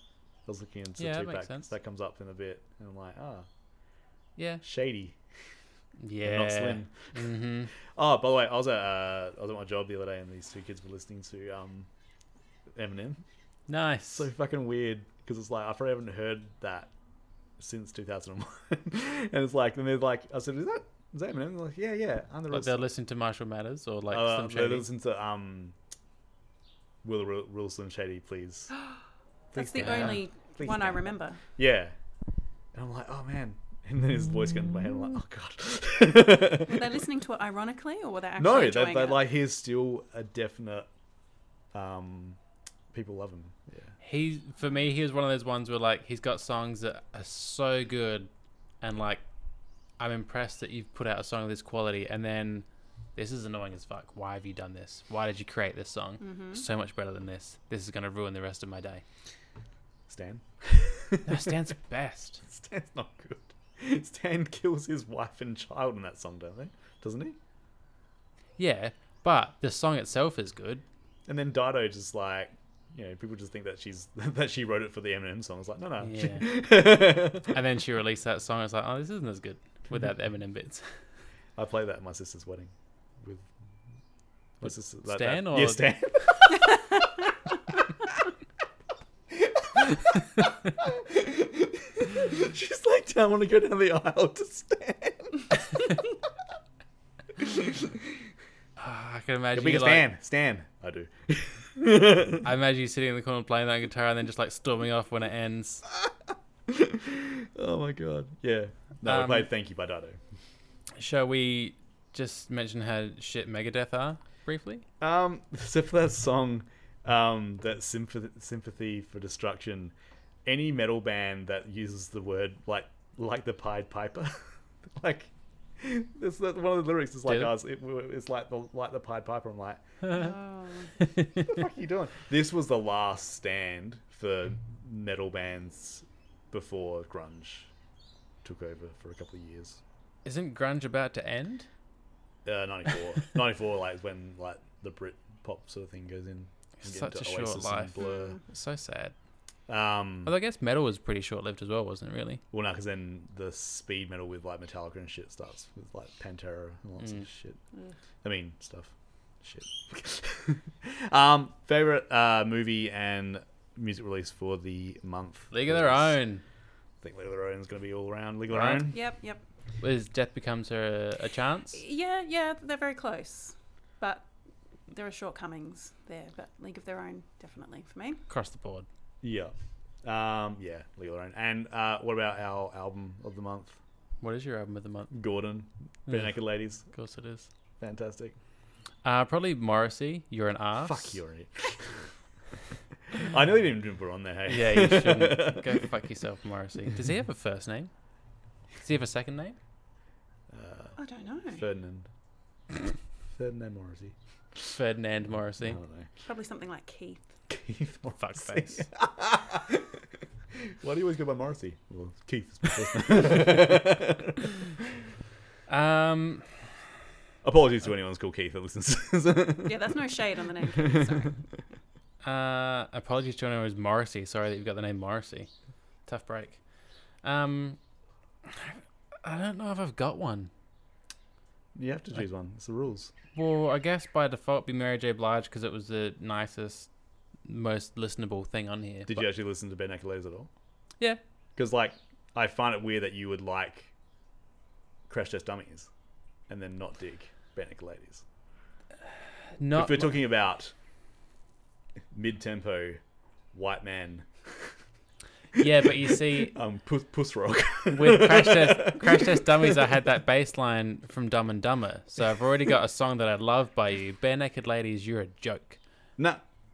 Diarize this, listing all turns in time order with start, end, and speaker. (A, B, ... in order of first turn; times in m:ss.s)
0:00.4-0:03.5 A
0:01.0-0:01.7 B
0:04.4-0:04.6 B
0:04.6-0:05.2 A
0:06.0-0:07.7 B
0:06.2-0:07.1 A
0:07.9-0:11.9 A
0:12.7-0:13.2 A
0:13.7-0:14.3 B
0:14.1-0:16.9 A
0:17.6-0:22.8 A
0:22.5-0:24.9 B
0:24.1-0:25.8 A
0:27.0-0:28.7 A
0:29.5-0:31.9 A
0:29.5-0:31.4 C
0:29.8-0:30.2 B
0:32.7-0:36.9 A
0:36.6-0:39.2 C
0:38.4-0:40.9 A
0:41.7-0:42.4 A
0:42.9-0:44.0 A
0:44.0-0:48.3 B
0:48.8-0:49.2 B
0:50.0-0:59.0 B
0:56.2-0:56.6 C
1:00.1-1:01.6 A
1:01.2-1:02.4 B
1:02.4-1:07.4 A
1:08.6-1:10.8 B
1:11.3-1:17.6 A
1:16.0-1:16.5 B
1:17.5-1:20.9 B
1:21.6-1:23.5 A
1:24.6-1:27.0 A
1:24.6-1:25.9 B
1:29.3-1:35.7 A
1:37.4-1:38.3 A
1:38.8-1:40.1 B
1:39.5-1:42.5 A
1:42.4-1:45.8 B
1:46.7-1:50.2 A
1:49.0-1:49.5 B
1:51.0-1:54.8 B
1:55.0-1:59.9 A
2:00.4-2:09.8 A
2:07.3-2:07.5 B
2:10.0-2:10.3 B
2:10.1-2:10.9 C
2:11.0-2:11.5 B
2:11.4-2:17.7 A
2:18.4-2:19.8 A
2:20.2-2:21.7 B
2:22.4-2:28.4 A
2:26.8-2:29.1 B
2:28.0-2:28.4 C
2:29.7-2:30.3 A
2:30.2-2:32.4 B
2:32.5-2:37.6 A
2:37.0-2:37.3 B
2:38.2-2:46.2 A
2:45.5-2:46.4 B
2:47.0-2:49.0 A
2:48.5-2:48.8 B
2:48.9-2:49.4 C
2:49.8-2:51.8 B
2:51.7-2:54.3 C
2:54.9-2:58.2 C
2:58.3-2:58.9 B
2:59.2-3:03.8 A
3:04.2-3:05.1 B
3:05.1-3:06.9 A
3:06.1-3:07.5 B
3:07.8-3:08.4 A
3:09.0-3:11.2 B
3:10.8-3:12.0 A
3:13.1-3:15.9 A
3:14.5-3:17.9 B
3:18.8-3:19.6 B
3:20.5-3:21.0 A
3:21.0-3:21.6 C
3:21.5-3:22.1 A
3:23.3-3:24.7 A
3:24.7-3:25.8 B
3:25.6-3:26.1 A
3:26.2-3:27.3 C
3:27.5-3:34.8 A
3:28.2-3:28.9 B
3:35.7-3:36.7 B
3:37.4-3:39.9 A
3:39.6-3:41.4 C
3:40.7-3:41.3 A
3:42.2-3:45.5 B
3:46.0-3:46.6 B
3:47.2-3:47.8 B
3:48.5-3:50.5 B
3:51.7-3:53.1 A
3:53.3-3:56.9 B
3:57.4-3:59.3 B
3:59.1-4:00.5 A
4:01.6-4:03.9 A
4:05.1-4:05.9 A
4:06.5-4:08.2 A
4:09.6-4:10.2 B
4:09.7-4:10.7 A
4:12.1-4:13.0 A
4:13.5-4:14.7 A
4:15.6-4:20.0 A
4:15.6-4:16.6 B
4:17.9-4:25.8 B
4:26.2-4:26.4 A